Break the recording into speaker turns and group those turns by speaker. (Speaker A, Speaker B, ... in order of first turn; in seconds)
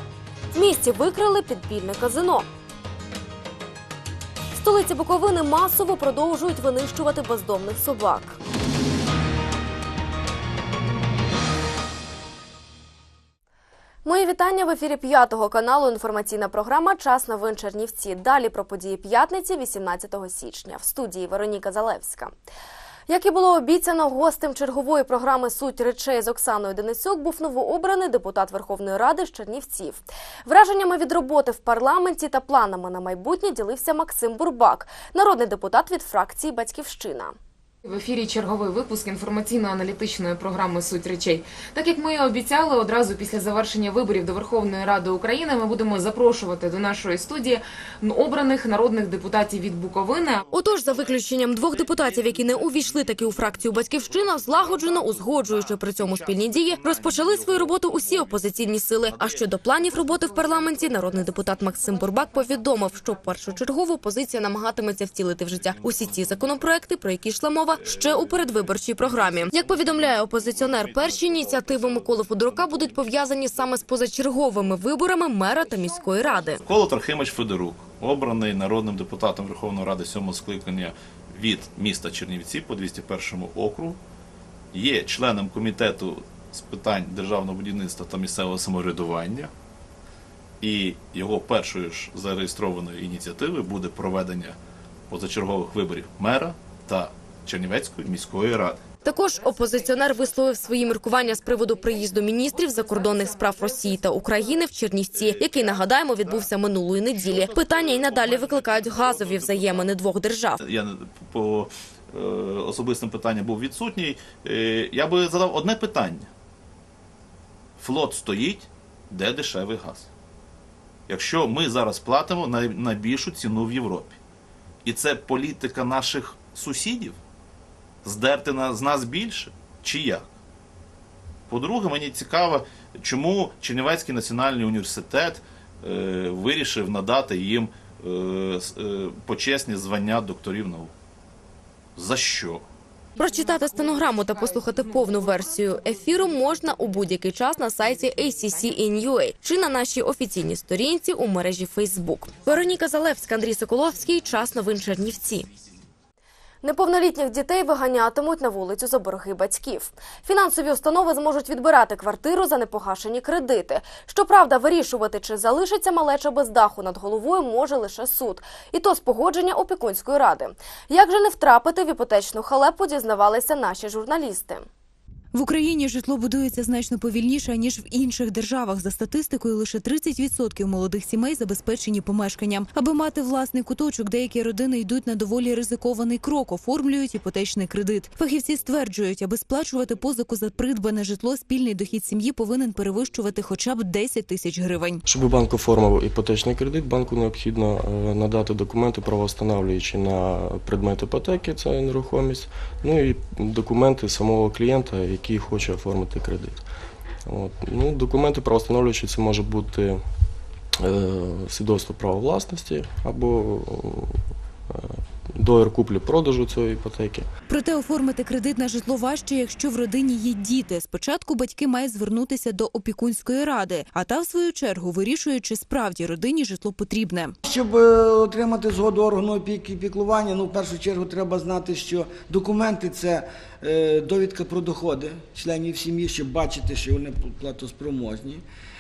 Speaker A: 0.5-2.5, 4.6-8.4, 14.0-22.3, 23.1-37.4, 50.5-76.6, 99.0-110.6, 143.2-155.5, 156.6-174.7
Speaker B: 37.8-50.4, 102.8-104.1, 143.9-144.5
Speaker C: 76.7-84.0, 84.7-89.5, 90.7-94.5, 95.1-98.8, 110.7-111.7, 112.2-116.3, 117.8-120.0, 121.1-124.2, 124.9-127.2, 128.1-130.2, 131.5-140.9, 142.0-142.6
Speaker D: 175.3-195.0, 217.5-227.3
Speaker E: 195.1-206.7, 207.3-210.0, 210.8-214.2, 214.7-217.3
Speaker F: 227.5-238.4